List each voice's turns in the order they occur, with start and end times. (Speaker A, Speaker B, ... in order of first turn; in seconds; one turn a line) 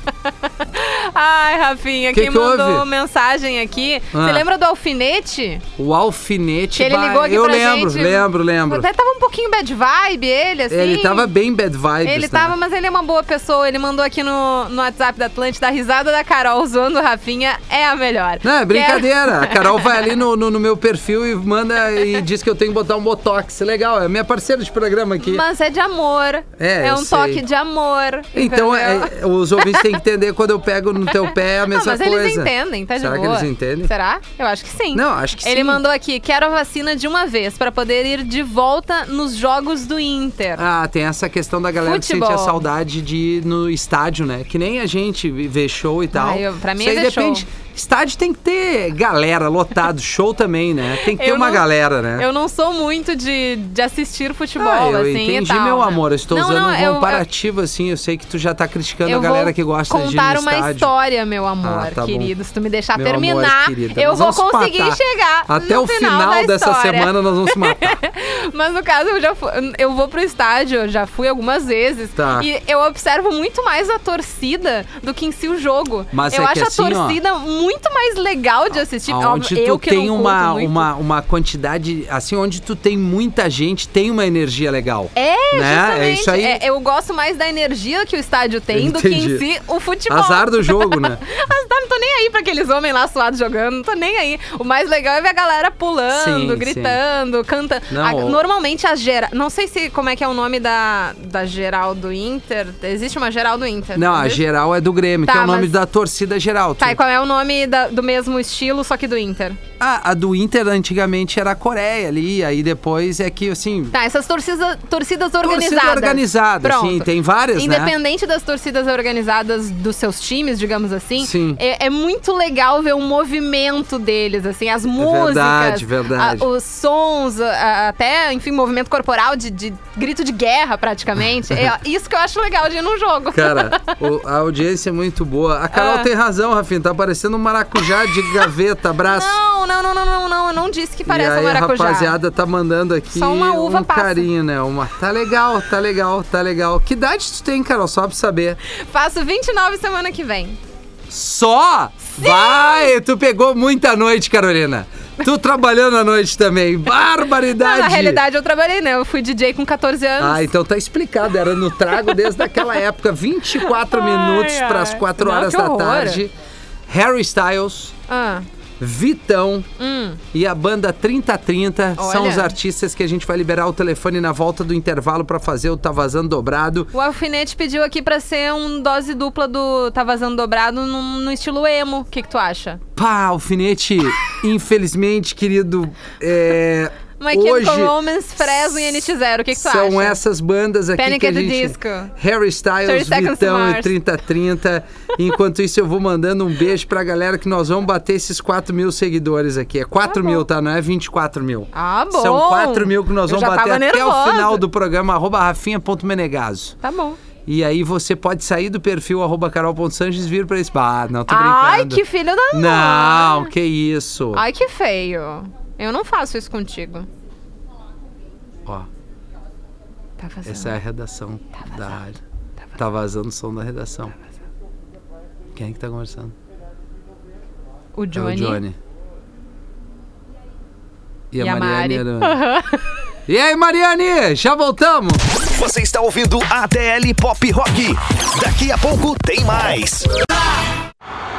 Speaker A: 0.2-5.6
Speaker B: 2.1-2.9
Speaker B: 4.1-4.4
Speaker B: 5.8-8.9
Speaker A: 6.8-11.3
Speaker B: 10.7-12.5
Speaker A: 12.0-20.0
Speaker B: 18.4-25.4
Speaker A: 25.2-30.0
Speaker B: 26.6-27.4
Speaker B: 28.3-33.9
Speaker A: 31.2-40.6
Speaker B: 34.9-35.8
Speaker B: 40.6-52.3
Speaker A: 41.8-42.6
Speaker A: 46.1-47.5
Speaker A: 51.1-57.2
Speaker B: 54.6-60.9
Speaker A: 59.0-80.9
Speaker B: 61.6-62.3
Speaker B: 63.0-68.0
Speaker B: 72.2-72.5
Speaker B: 76.1-77.2
Speaker B: 79.1-86.6
Speaker A: 85.2-104.4
Speaker B: 88.7-89.5
Speaker B: 90.1-91.2
Speaker B: 96.1-97.0
Speaker B: 97.9-98.4
Speaker B: 104.0-107.0
Speaker A: 105.2-105.7
Speaker A: 106.8-109.6
Speaker B: 109.8-113.9
Speaker A: 113.9-133.9
Speaker B: 115.4-117.9
Speaker B: 121.2-121.6
Speaker B: 125.0-126.5
Speaker B: 133.3-139.4
Speaker A: 135.7-136.1
Speaker A: 139.0-142.2
Speaker B: 141.1-148.6
Speaker A: 143.1-144.3
Speaker A: 148.7-150.6
Speaker B: 151.1-158.2
Speaker A: 152.1-152.9
Speaker A: 157.5-160.5
Speaker B: 160.2-166.3
Speaker A: 163.6-166.2
Speaker B: 166.9-167.9
Speaker A: 168.1-168.5
Speaker B: 168.8-169.7
Speaker A: 169.8-170.2
Speaker B: 170.3-176.9
Speaker A: 172.0-172.5
Speaker A: 176.9-182.8
Speaker B: 183.0-206.8
Speaker A: 187.2-190.2
Speaker A: 191.0-192.1
Speaker A: 192.8-193.9
Speaker A: 200.1-200.4
Speaker A: 201.7-204.6
Speaker A: 206.8-207.2
Speaker B: 207.5-214.4
Speaker A: 211.3-213.5
Speaker A: 214.3-217.1
Speaker A: 220.2-220.8
Speaker B: 220.4-222.2
Speaker B: 222.8-224.2
Speaker B: 225.6-226.3
Speaker A: 228.0-228.6
Speaker B: 228.1-228.8
Speaker B: 231.3-232.4
Speaker A: 231.4-232.8
Speaker B: 233.3-235.2
Speaker C: 235.5-240.1